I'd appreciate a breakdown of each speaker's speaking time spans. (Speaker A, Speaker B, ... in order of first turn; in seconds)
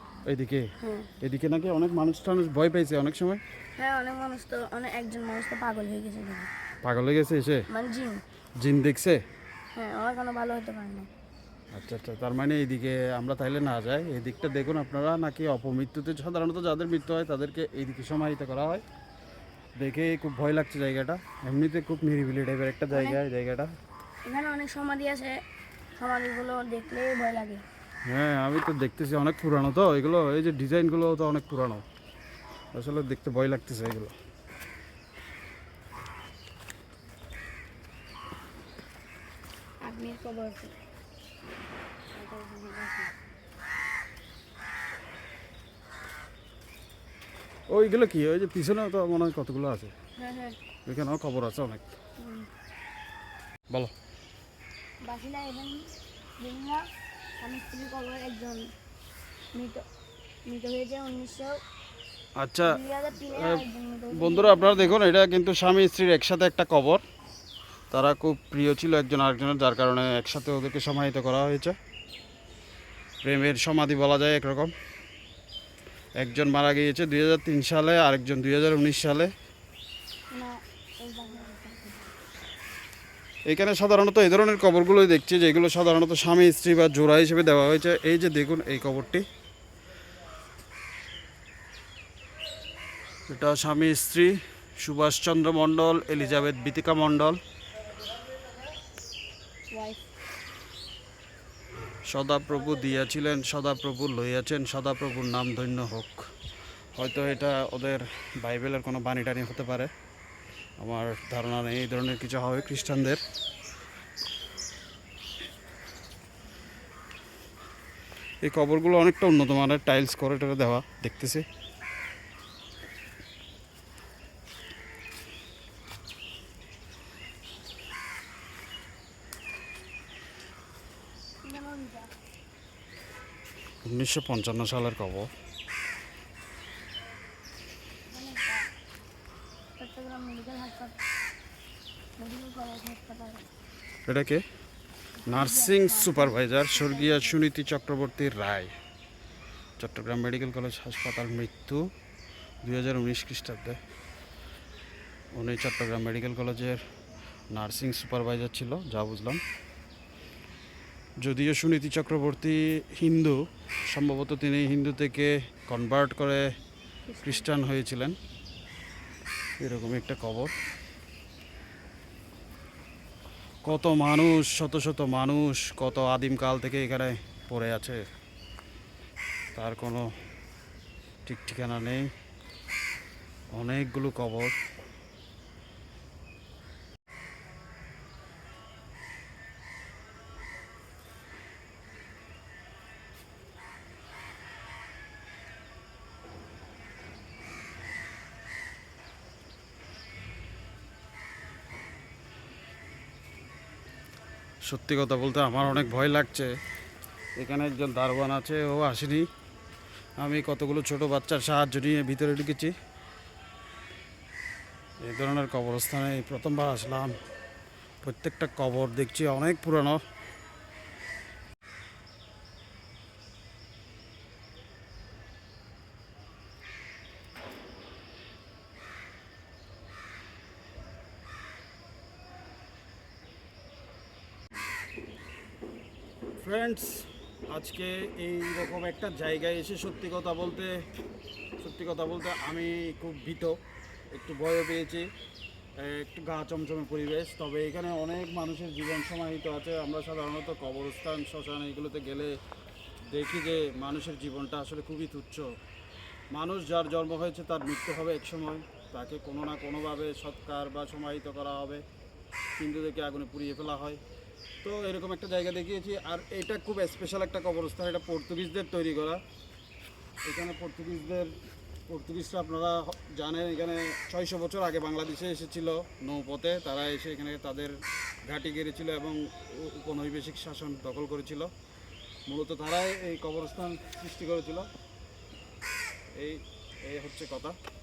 Speaker A: 0.3-3.4, 6.8-7.7, 8.6-9.2, 11.7-18.8, 19.8-23.7, 28.1-31.8, 32.7-34.1, 47.7-49.9, 50.9-51.8, 62.4-67.0, 67.9-71.7, 73.2-74.7, 76.2-79.3, 83.5-89.2, 93.3-97.4, 102.0-106.3, 106.9-109.9, 110.8-113.2, 118.4-121.4, 133.8-135.3, 144.1-144.4, 145.3-148.7, 149.8-151.9, 152.6-153.8, 155.3-156.8, 157.5-159.4, 161.2-166.5, 167.2-168.2, 169.6-170.5, 173.6-178.0, 179.5-180.1, 181.2-182.1, 183.5-184.6, 204.6-206.5, 207.4-209.3, 210.2-212.7, 215.0-217.2, 218.0-220.0, 236.4-240.8, 241.6-243.6, 244.1-245.1, 245.8-252.4, 253.1-255.5, 256.3-261.8, 262.6-264.0, 264.6-269.2, 270.2-281.5, 282.3-284.7, 286.1-287.6
Speaker B: 0.8-1.1, 3.8-6.5, 7.7-8.2, 9.7-11.1, 22.9-23.2, 24.2-25.4, 26.0-27.6, 39.8-40.7, 42.1-43.1, 50.2-50.6, 52.2-52.5, 55.0-56.9, 57.4-58.7, 59.5-59.8, 60.5-61.6, 62.6-65.0, 80.3-82.1, 99.7-100.0, 131.4-132.1, 138.1-138.7, 139.8-141.0, 142.2-143.4, 145.2-147.4, 167.1-167.5